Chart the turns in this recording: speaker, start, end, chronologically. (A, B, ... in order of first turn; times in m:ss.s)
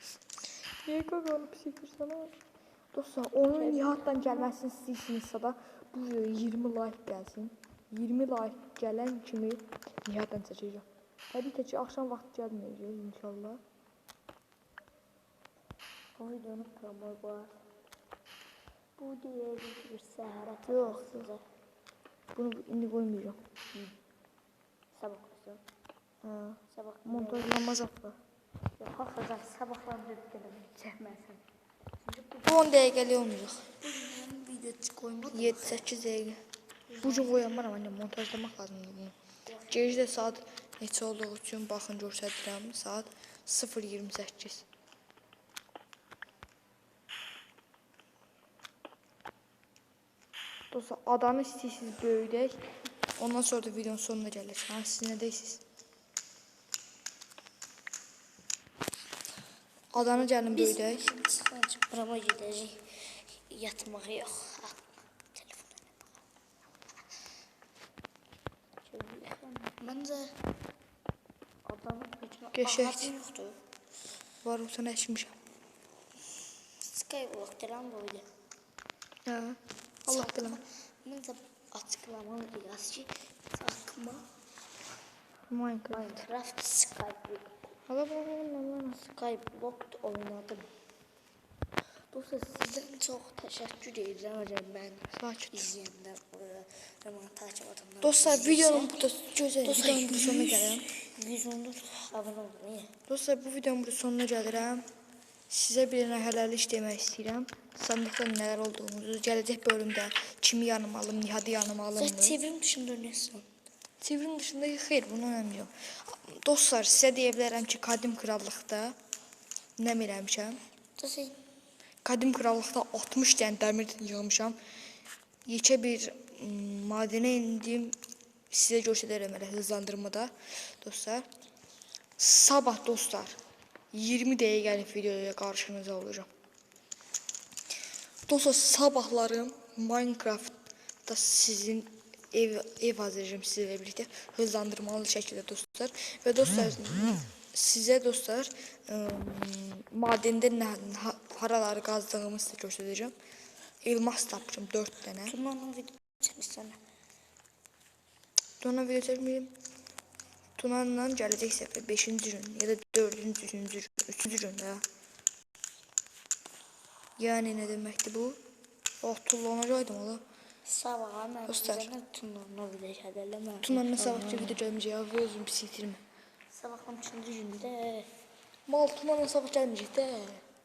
0:00.8-0:02.3 A
0:02.9-0:13.6 A
0:03.6-0:04.5 B
0:16.2-0:17.6 B
0:19.0-0:21.4 B
0:20.7-0:21.3 A
0:22.4-0:23.4 A
0:25.0-0:25.6 B
0:26.2-0:28.2 A
0:26.7-0:27.8 B
0:28.8-0:31.4 B
0:32.0-0:32.8 B
0:32.4-0:33.7 A
0:33.7-0:35.8 B
0:35.3-0:36.4 A
0:36.9-0:37.6 B
0:37.0-0:39.2 A
0:39.5-0:40.4 B
0:39.7-0:44.7 A
0:50.7-0:52.6 A
0:53.2-0:55.6 A
0:59.9-1:01.1 A
0:59.9-1:02.9 B
1:03.5-1:04.8 B
1:05.3-1:06.1 B
1:08.9-1:10.4 B
1:11.7-1:13.6 B
1:12.5-1:13.1 A
1:14.4-1:15.4 A
1:16.8-1:18.3 B
1:19.3-1:20.6 A
1:20.1-1:24.2 B
1:25.5-1:26.2 A
1:25.9-1:27.5 B
1:27.9-1:29.1 A
1:29.1-1:30.7 B
1:32.1-1:39.0 B
1:35.1-1:35.7 A
1:38.0-1:40.9 A
1:39.6-1:42.9 B
1:43.1-1:44.9 A
1:45.5-1:52.4 A
1:52.0-1:53.5 B
1:54.0-1:59.0 A
1:59.8-2:00.6 A
2:01.0-2:01.4 B
2:02.0-2:04.6 A
2:05.5-2:08.0 A
2:08.5-2:11.3 A
2:12.2-2:13.4 A
2:13.9-2:16.3 A
2:18.3-2:20.6 A
2:21.1-2:33.1 A
2:33.8-2:35.4 A
2:35.2-2:36.8 B
2:38.6-2:39.5 A
2:40.6-2:44.8 A
2:47.2-2:48.4 A
2:49.0-2:50.2 A
2:50.6-2:54.6 B
2:51.5-2:51.9 A
2:53.6-2:56.0 A
2:56.5-2:58.1 B
2:58.7-3:00.4 A